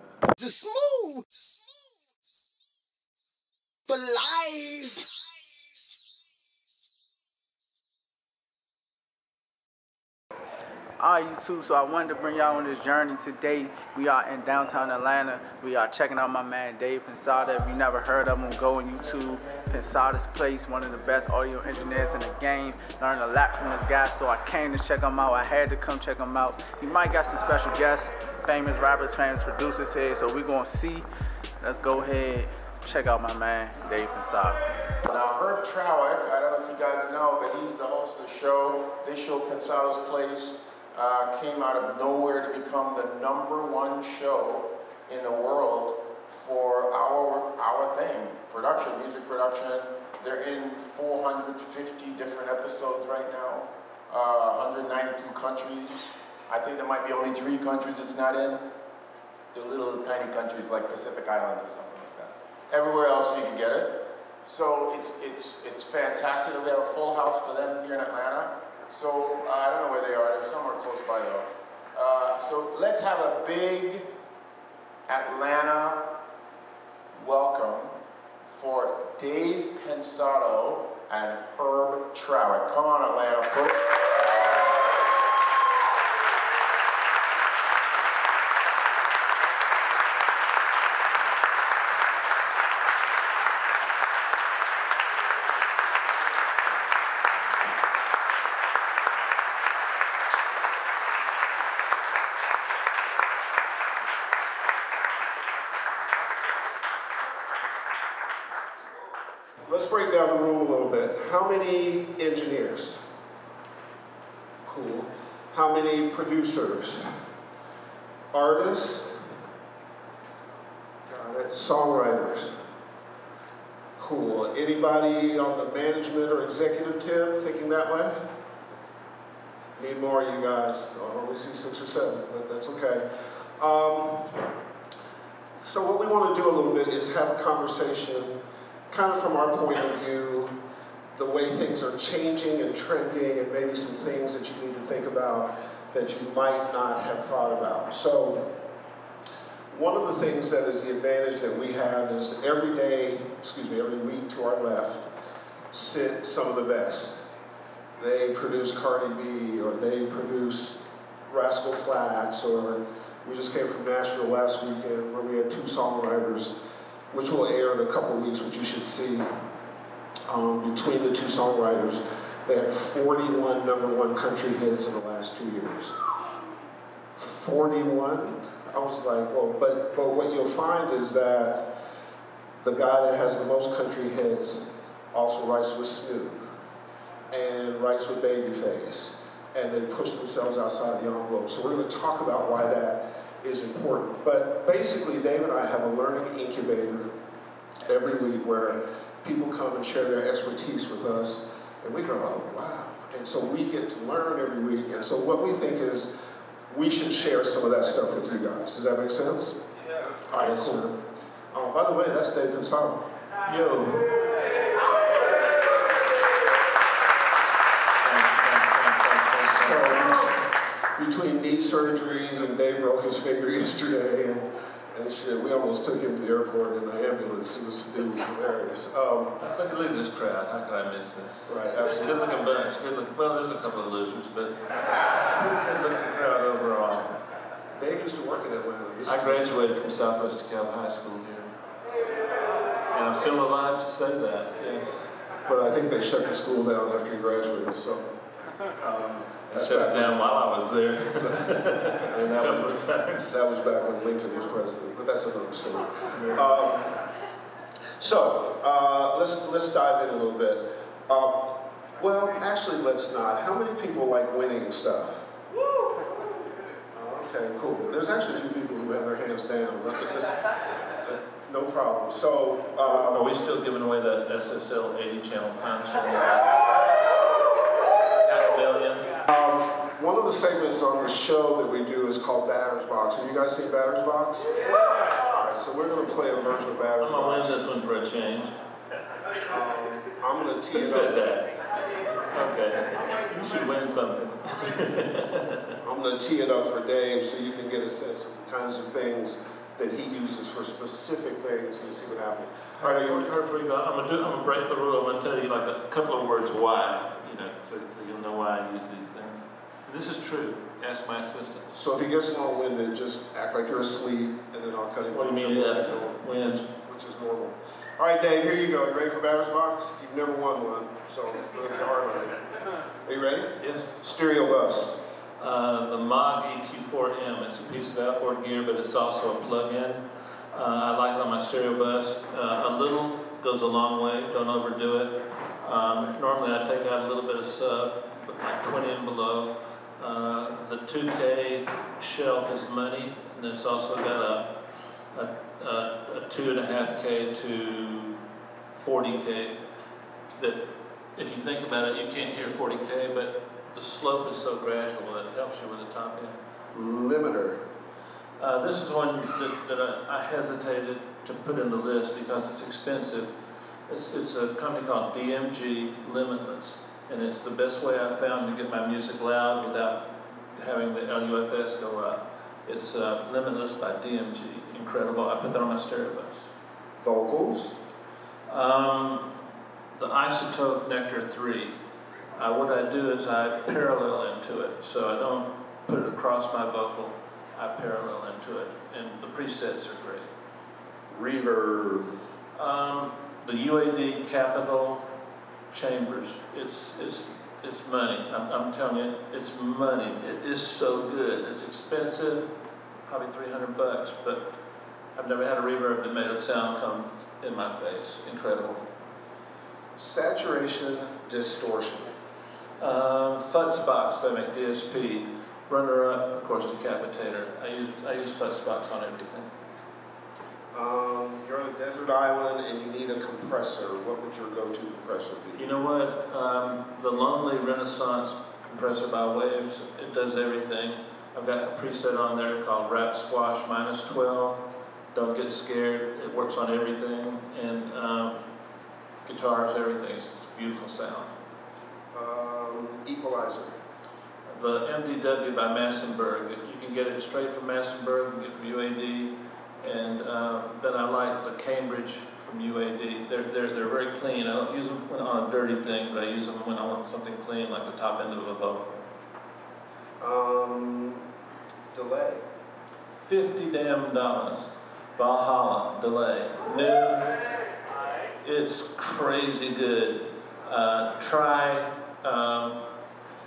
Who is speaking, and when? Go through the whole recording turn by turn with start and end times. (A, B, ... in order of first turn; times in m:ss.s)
0:00.4-0:01.7 A
0:03.9-0:05.1 A
0:11.0-0:31.0 B
0:31.6-0:34.6 B
0:35.1-0:58.6 C
0:59.5-1:14.0 C
1:15.1-1:16.0 C
1:17.1-1:17.9 C
1:18.5-1:23.8 C
1:49.7-1:53.0 D
1:54.6-1:57.0 D
1:58.3-1:59.2 D
2:01.1-2:02.5 D
2:04.0-2:08.2 D
2:09.8-2:13.0 D
2:13.6-2:14.3 D
2:15.6-2:18.4 D
2:18.9-2:20.5 D
2:21.2-2:28.5 D
2:29.7-2:35.1 D
2:35.7-2:37.2 D
2:38.0-2:46.5 D
2:47.1-2:49.3 D
2:50.3-2:55.9 D
2:57.1-3:01.7 D
3:02.6-3:06.4 D
3:07.3-3:17.1 D
3:17.8-3:26.1 D
3:26.7-3:29.6 D
3:30.3-3:31.0 D
3:30.3-3:30.8 E
3:31.5-3:33.0 D
3:33.4-3:34.1 E
3:38.0-3:40.0 E
3:39.4-3:49.4 D
3:49.4-3:57.1 E
3:51.5-3:52.2 D
3:57.8-3:59.5 D
3:59.0-4:01.5 E
4:02.9-4:05.1 E
4:05.4-4:08.1 D
4:08.8-4:10.2 D
4:09.5-4:13.3 E
4:12.1-4:16.9 D
4:16.1-4:16.4 E
4:18.0-4:25.3 D
4:26.9-4:30.4 D
4:31.0-4:33.3 D
4:32.8-4:36.5 E
4:38.2-4:39.1 E
4:39.3-4:44.5 D
4:45.1-4:47.6 D
4:47.0-4:48.5 E
4:49.5-4:51.3 D
4:50.7-4:51.5 E
4:52.3-4:55.7 E
4:55.8-5:03.3 D
5:02.8-5:11.8 E
5:11.7-5:22.4 D
5:15.1-5:16.6 E
5:23.0-5:25.0 D
5:23.6-5:23.9 E
5:25.4-5:44.6 E
5:45.1-5:48.2 E
5:48.7-5:49.6 E
5:50.3-5:56.4 E
5:56.7-5:57.6 D
5:58.4-6:03.3 E
6:03.9-6:16.5 E
6:17.0-6:17.8 D
6:18.5-6:19.3 E
6:20.0-6:21.8 E
6:22.3-6:30.3 E
6:31.1-6:32.1 D
6:32.5-6:35.0 E
6:35.7-6:42.5 E
6:43.0-6:44.5 E
6:45.2-6:48.8 E
6:50.0-6:52.1 D
6:52.8-6:59.5 E
7:00.7-7:05.8 D
7:05.5-7:18.4 E
7:19.2-7:21.3 E
7:22.1-7:23.8 D
7:24.5-7:39.0 E
7:40.2-7:41.2 D
7:41.9-7:42.4 D
7:43.2-7:47.4 E
7:48.4-7:52.8 E